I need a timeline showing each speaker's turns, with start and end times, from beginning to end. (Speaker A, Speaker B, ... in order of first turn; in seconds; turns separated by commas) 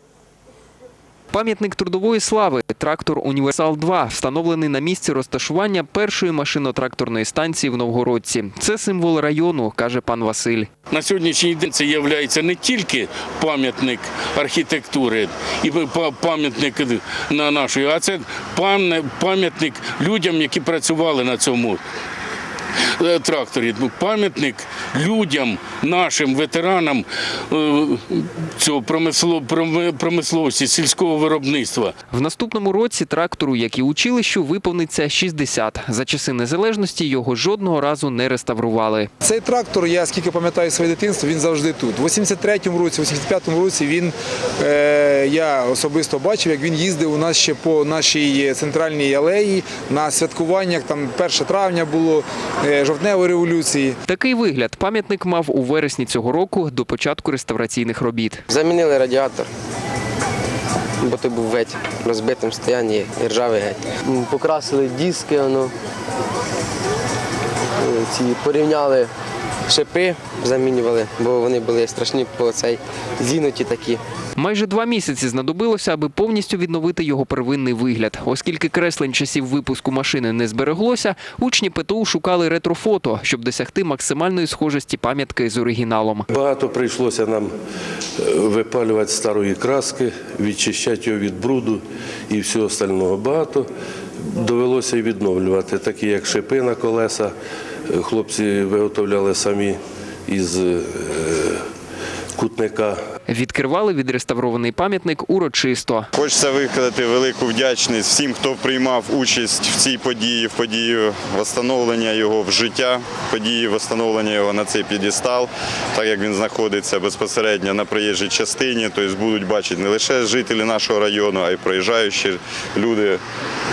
Speaker A: 1.3-10.7, Speaker B: 10.9-21.8, Speaker B: 23.0-31.9, Speaker A: 32.1-39.1, Speaker C: 39.2-54.0, Speaker A: 54.1-58.4, Speaker D: 58.5-59.5, Speaker D: 61.0-65.7, Speaker D: 67.8-69.1, Speaker D: 69.7-74.0, Speaker A: 74.3-86.2, Speaker E: 86.3-87.5, Speaker E: 88.2-93.7, Speaker E: 94.2-97.3, Speaker E: 97.9-101.7, Speaker E: 102.3-103.0, Speaker A: 103.3-106.1, Speaker F: 106.1-123.2